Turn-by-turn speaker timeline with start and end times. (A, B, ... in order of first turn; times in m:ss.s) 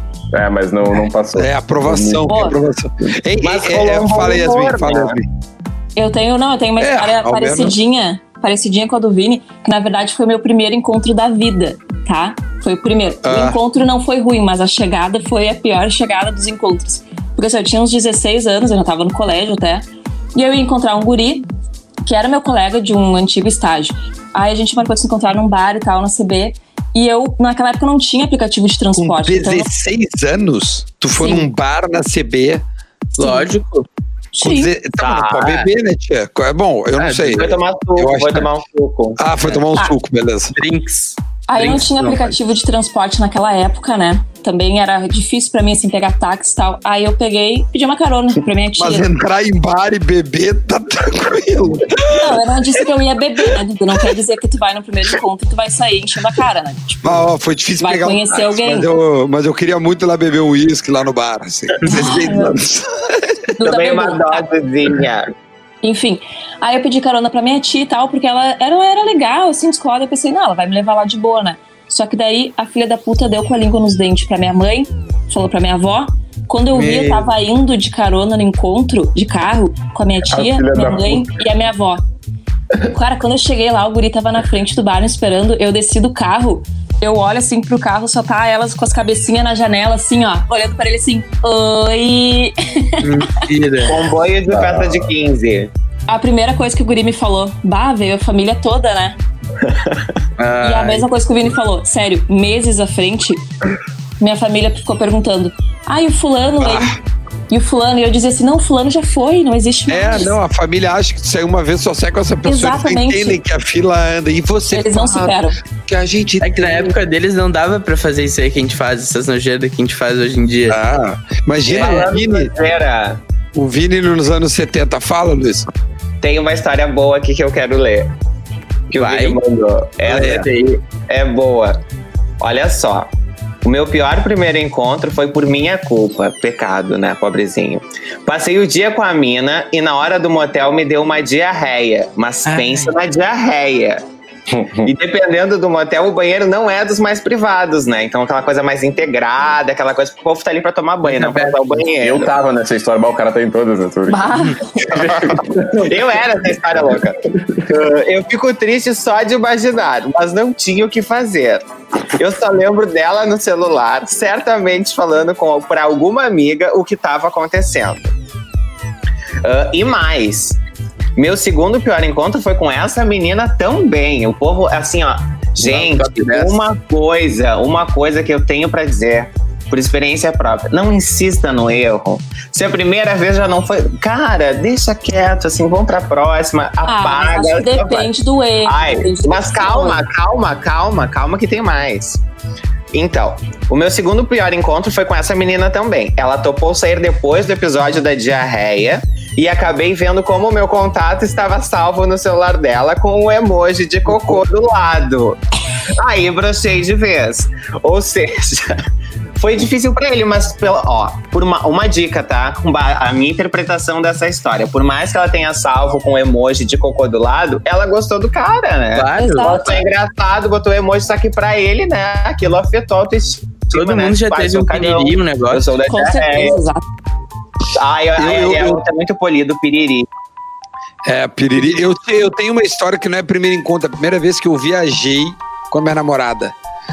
0:00.3-0:02.6 A
0:01.4-0:05.3 B
0:02.3-0:02.6 C
0:03.4-0:05.2 D
0:06.0-0:21.5 C
0:06.8-0:07.8 B
0:13.2-0:13.6 B
0:22.0-0:29.7 C
0:29.0-0:32.6 B
0:31.1-0:31.5 C
0:33.2-0:33.9 E
0:33.2-0:33.5 C
0:34.3-0:34.7 C
0:34.4-0:38.5 B
0:35.0-0:35.7 D
0:37.0-0:39.2 D
0:39.2-0:40.6 B
0:40.6-0:42.4 E
0:41.5-0:49.1 C
0:48.8-0:52.4 B
0:52.1-0:57.2 C
0:57.0-1:03.5 B
0:57.8-0:58.9 C
1:01.8-1:02.6 C
1:03.6-1:04.5 C
1:03.6-1:05.3 D
1:05.8-1:22.0 C
1:16.7-1:17.3 E
1:20.3-1:21.4 A
1:22.9-1:33.2 C
1:33.0-1:34.0 E
1:33.9-1:35.7 D
1:34.5-1:35.1 A
1:36.1-1:39.2 C
1:40.4-1:41.0 E
1:40.6-1:43.4 C
1:44.2-1:47.0 C
1:46.6-1:47.0 B
1:47.5-1:50.4 C
1:49.9-1:56.9 B
1:52.4-1:53.4 C
1:54.7-1:55.6 C
1:56.4-2:00.8 E
2:00.7-2:02.5 B
2:01.7-2:03.2 D
2:03.5-2:05.7 B
2:06.2-2:08.1 D
2:08.9-2:10.5 D
2:09.0-2:09.4 E
2:10.1-2:10.5 B
2:10.1-2:10.8 E
2:11.1-2:11.8 D
2:12.4-2:13.1 D
2:13.6-2:24.0 D
2:22.5-2:23.0 E
2:24.5-2:24.9 A
2:24.8-2:32.3 D
2:31.0-2:31.8 E
2:32.0-2:36.0 A
2:34.1-2:34.8 C
2:35.8-2:48.1 D
2:49.4-2:50.6 D
2:51.2-3:08.1 D
2:55.6-2:56.6 E
3:06.9-3:10.0 C
3:08.6-3:12.2 D
3:12.9-3:25.4 D
3:26.0-3:28.8 D
3:29.4-3:46.6 D
3:39.0-3:39.8 E
3:39.2-3:39.8 C
3:43.7-3:45.6 E
3:45.9-3:46.8 C
3:47.8-3:50.1 D
3:48.2-3:48.8 B
3:51.0-3:56.5 B